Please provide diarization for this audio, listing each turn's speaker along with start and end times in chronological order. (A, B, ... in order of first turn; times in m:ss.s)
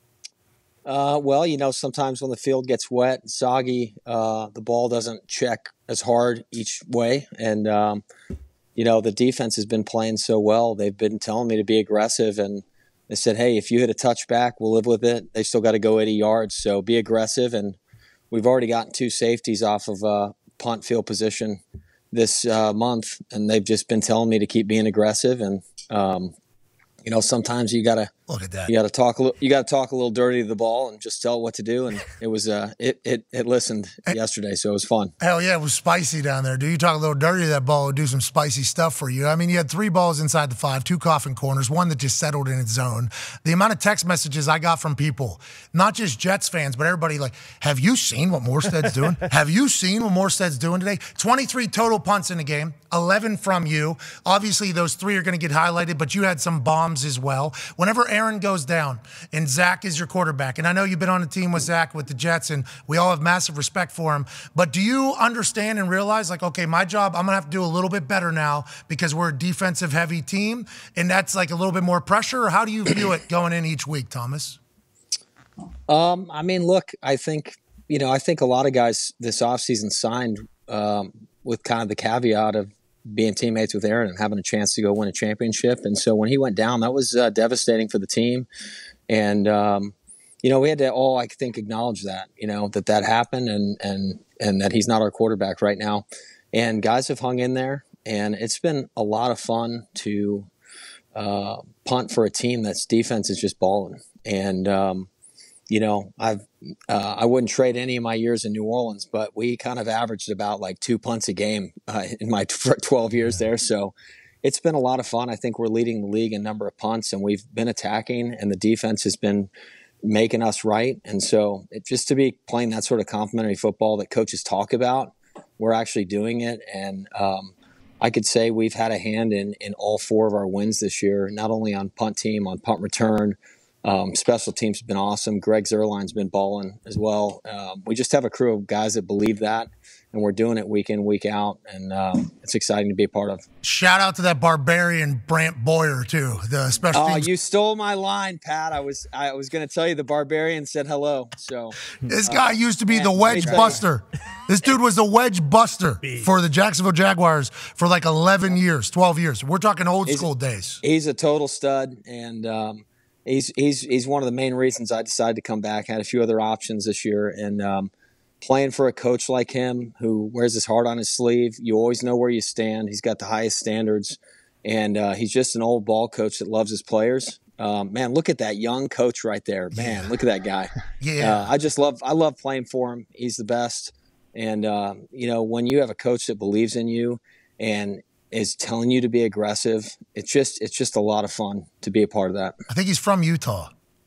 0:00.8-0:08.0 A
0:08.8-0:17.8 A
0:18.3-0:21.6 A
0:22.1-0:26.3 A
0:27.0-0:28.1 A
0:28.3-0:28.7 B
0:28.7-0:35.1 A
0:35.2-1:14.6 B
1:15.9-1:28.5 A
1:29.1-1:40.5 A
1:41.1-1:45.1 A
1:45.7-1:59.5 A
2:00.0-2:23.4 A
2:23.6-2:27.3 B
2:26.9-2:33.8 A
2:32.0-2:40.8 B
2:40.0-2:40.3 A
2:40.8-2:47.9 A
2:48.4-3:12.6 A
2:59.7-3:00.1 B
3:01.0-3:01.5 B
3:12.7-3:13.7 B